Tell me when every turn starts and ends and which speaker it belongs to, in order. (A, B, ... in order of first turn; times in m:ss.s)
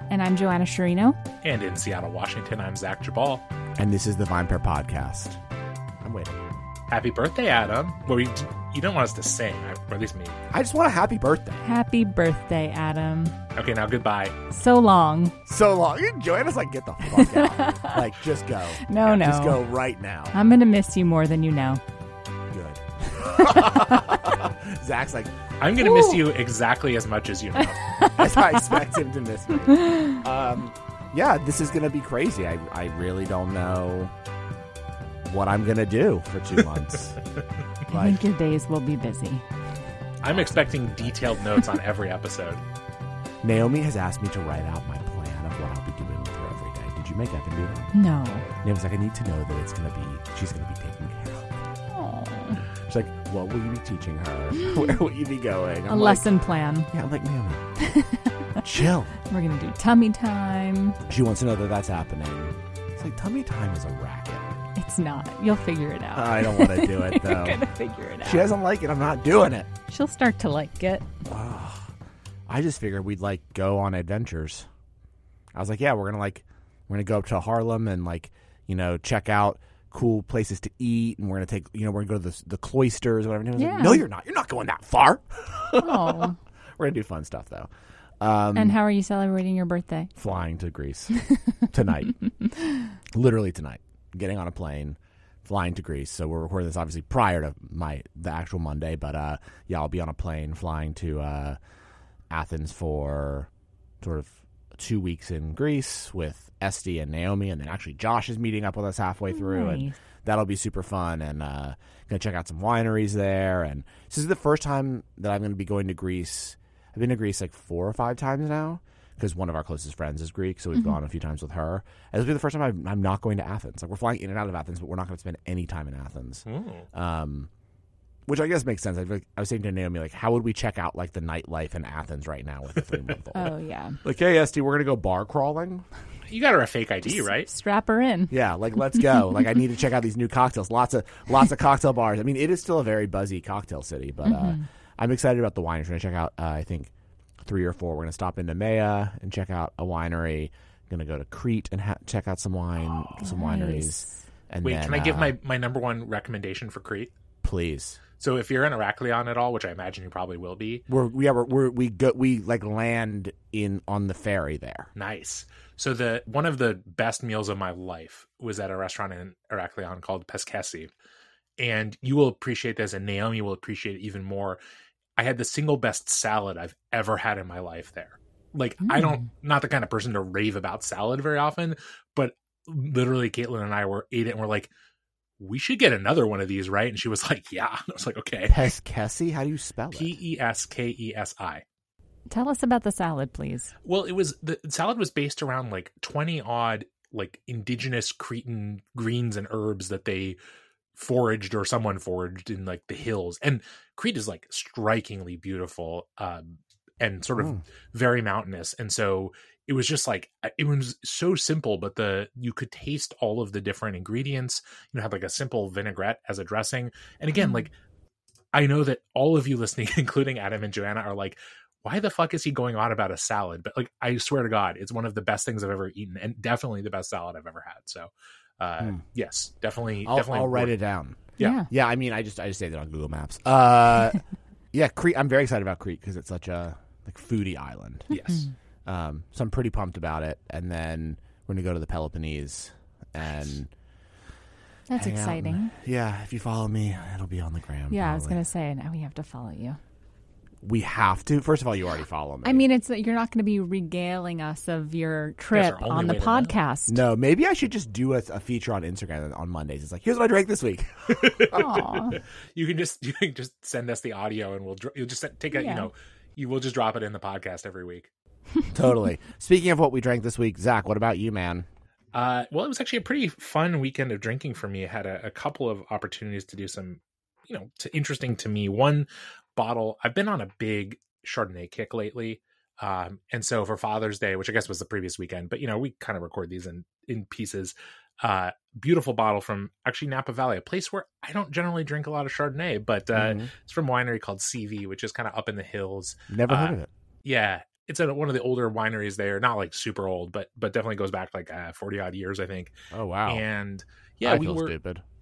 0:00.1-0:01.2 A
0:01.4-0:03.4 B
0:03.8-0:05.4 C
0:06.0-0:06.4 C
0:06.9-0:10.4 B
0:10.5-0:11.6 C
0:11.6-0:13.4 A
0:13.6-0:14.4 B
0:14.5-0:15.4 A
0:15.5-0:20.4 C
0:17.1-0:18.0 A
0:18.8-0:19.6 A
0:20.3-0:21.8 A
0:22.5-0:25.3 C
0:25.6-0:28.1 B
0:25.8-0:26.2 A
0:27.8-0:28.3 A
0:28.2-0:34.1 C
0:29.7-0:30.2 A
0:35.3-0:37.2 C
0:37.9-0:38.2 C
0:37.9-0:39.4 A
0:40.2-0:42.6 B
0:40.2-0:41.2 C
0:43.4-0:47.9 C
0:47.9-0:48.5 A
0:48.5-0:51.7 C
0:51.9-0:52.6 A
0:52.7-0:56.2 C
0:55.9-0:56.9 A
0:56.9-0:57.7 C
0:57.8-0:58.6 A
0:58.6-0:59.1 C
0:59.2-1:01.0 A
1:01.1-1:04.5 C
1:04.8-1:08.5 A
1:06.1-1:07.6 C
1:08.2-1:09.7 C
1:09.9-1:11.0 A
1:11.2-1:11.9 C
1:12.5-1:14.7 C
1:15.5-1:27.7 C
1:23.6-1:24.0 A
1:25.8-1:26.4 A
1:28.2-1:28.8 C
1:28.5-1:30.1 A
1:30.2-1:31.2 C
1:31.2-1:31.6 A
1:31.7-1:32.1 C
1:32.3-1:32.9 A
1:33.1-1:41.6 C
1:42.3-1:43.5 C
1:44.0-2:07.5 C
1:49.3-1:50.0 A
2:06.4-2:06.9 B
2:08.3-2:15.9 C
2:13.3-2:14.0 A
2:16.3-2:17.5 B
2:17.0-2:19.4 A
2:18.3-2:26.9 C
2:24.2-2:24.6 A
2:27.4-2:35.3 C
2:33.2-2:34.2 A
2:34.6-2:37.1 B
2:37.4-2:38.0 C
2:38.2-2:40.8 B
2:40.9-2:44.9 C
2:45.0-2:50.9 B
2:51.6-2:54.6 B
2:55.2-3:04.7 B
2:58.9-2:59.2 A
3:05.4-3:08.7 B
3:08.5-3:10.1 C
3:09.9-3:11.6 B
3:12.3-3:13.7 A
3:13.8-3:20.4 B
3:20.9-3:37.7 B
3:27.4-3:27.6 C
3:37.4-3:37.7 A
3:38.5-3:50.7 B
3:50.0-3:58.1 C
3:51.4-3:51.7 A
3:58.1-3:58.5 B
3:58.1-3:58.5 A
3:58.8-4:03.7 C
4:04.9-4:05.7 A
4:05.0-4:08.4 C
4:07.9-4:09.8 A
4:10.6-4:12.6 C
4:12.4-4:17.0 A
4:15.5-4:16.5 B
4:16.9-4:21.6 C
4:21.1-4:28.1 B
4:21.5-4:22.2 A
4:25.5-4:25.9 A
4:28.7-4:31.7 C
4:32.1-5:02.8 B
4:53.1-4:53.5 C
4:56.3-4:56.9 C
5:02.9-5:03.4 C
5:03.2-5:04.7 B
5:04.2-5:05.0 C